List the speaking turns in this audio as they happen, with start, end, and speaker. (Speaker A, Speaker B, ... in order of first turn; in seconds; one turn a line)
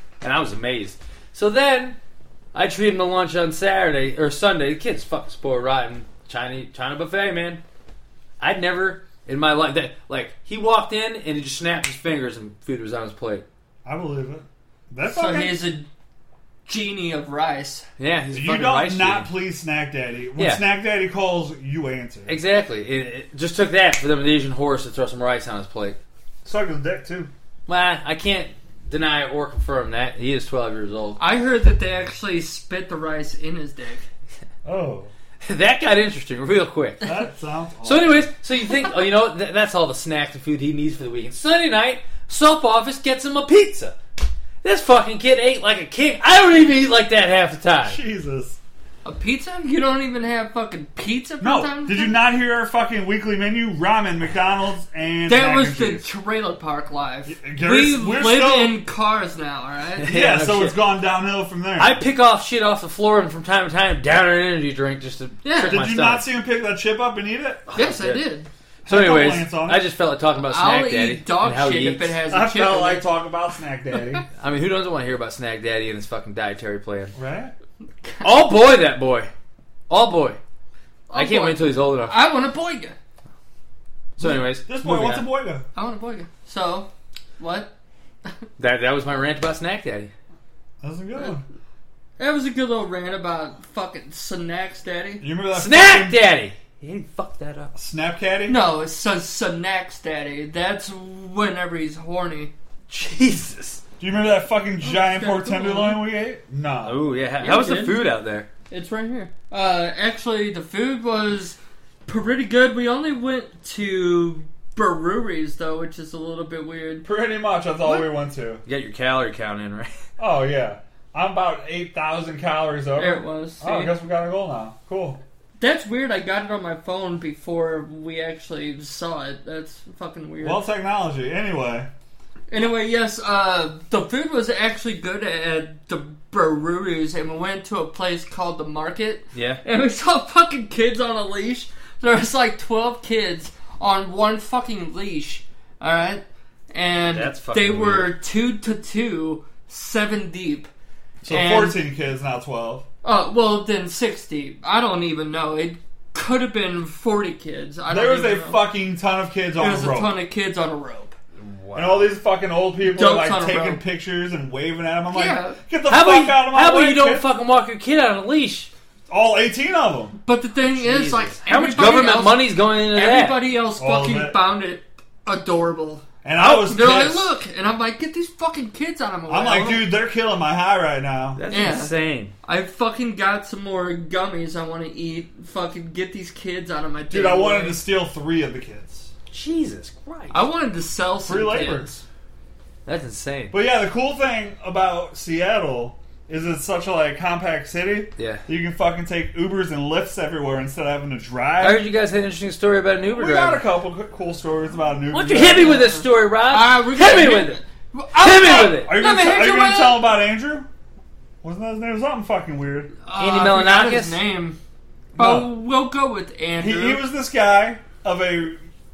Speaker A: 0.2-2.0
Speaker A: 2.5-7.6
Speaker A: 8.4-13.4
Speaker B: 13.8-15.6
Speaker C: 15.0-15.9
Speaker C: 16.6-17.9
Speaker A: 18.0-19.3
Speaker B: 18.3-22.4
Speaker A: 20.4-20.6
Speaker A: 22.3-26.0
Speaker B: 26.4-27.3
Speaker A: 27.7-31.2
Speaker C: 31.2-34.0
Speaker B: 34.6-35.1
Speaker A: 35.4-37.1
Speaker B: 37.0-38.3
Speaker A: 37.8-44.0
Speaker A: 44.6-48.0
Speaker B: 47.8-48.6
Speaker C: 49.0-52.1
Speaker B: 51.4-56.0
Speaker C: 55.3-60.1
Speaker B: 57.3-58.7
Speaker A: 60.0-60.8
Speaker B: 60.1-62.0
Speaker A: 61.8-66.2
Speaker C: 65.4-65.8
Speaker B: 65.7-67.7
Speaker A: 67.7-68.2
Speaker C: 67.7-68.5
Speaker B: 68.8-69.8
Speaker A: 68.8-72.2
Speaker C: 70.5-73.0
Speaker B: 72.3-74.2
Speaker A: 74.4-77.1
Speaker B: 77.1-77.5
Speaker C: 78.0-78.4
Speaker A: 78.2-79.3
Speaker A: 79.9-80.4
Speaker C: 81.1-82.9
Speaker A: 81.1-82.2
Speaker A: 84.2-85.3
Speaker B: 84.2-85.6
Speaker C: 85.7-87.7
Speaker A: 88.6-90.1
Speaker B: 90.8-91.4
Speaker C: 92.2-95.2
Speaker B: 95.2-96.2
Speaker A: 95.5-97.7
Speaker B: 97.7-98.6
Speaker C: 98.5-102.5
Speaker A: 102.9-103.8
Speaker B: 104.0-107.0
Speaker C: 104.8-106.0
Speaker A: 106.8-108.5
Speaker C: 107.4-108.0
Speaker C: 108.7-117.1
Speaker B: 117.0-118.6
Speaker A: 118.7-119.9
Speaker B: 120.2-125.2
Speaker C: 123.0-123.9
Speaker C: 125.6-130.6
Speaker B: 130.4-131.9
Speaker C: 132.5-150.7
Speaker A: 139.3-139.6
Speaker A: 147.1-148.1
Speaker B: 151.2-152.8
Speaker C: 151.3-151.8
Speaker C: 153.0-158.6
Speaker B: 157.9-160.1
Speaker C: 159.6-161.1
Speaker A: 161.4-162.1
Speaker B: 161.7-167.2
Speaker C: 162.8-163.8
Speaker C: 165.1-165.6
Speaker A: 165.9-168.7
Speaker B: 169.1-170.1
Speaker C: 170.2-179.9
Speaker A: 170.7-173.4
Speaker B: 173.8-174.4
Speaker B: 176.2-177.3
Speaker B: 179.3-181.4
Speaker A: 181.4-182.3
Speaker C: 181.5-187.8
Speaker B: 187.1-189.1
Speaker A: 189.3-190.4
Speaker C: 190.3-192.0
Speaker B: 191.3-192.0
Speaker A: 192.8-193.5
Speaker B: 193.5-201.8
Speaker A: 198.2-198.4
Speaker A: 201.6-203.6
Speaker B: 203.1-205.8
Speaker A: 205.1-207.6
Speaker C: 205.5-210.1
Speaker A: 208.1-208.9
Speaker B: 208.7-210.7
Speaker B: 211.4-212.9
Speaker C: 213.0-214.6
Speaker A: 213.2-214.2
Speaker B: 215.1-215.5
Speaker C: 215.2-217.0
Speaker B: 216.6-218.6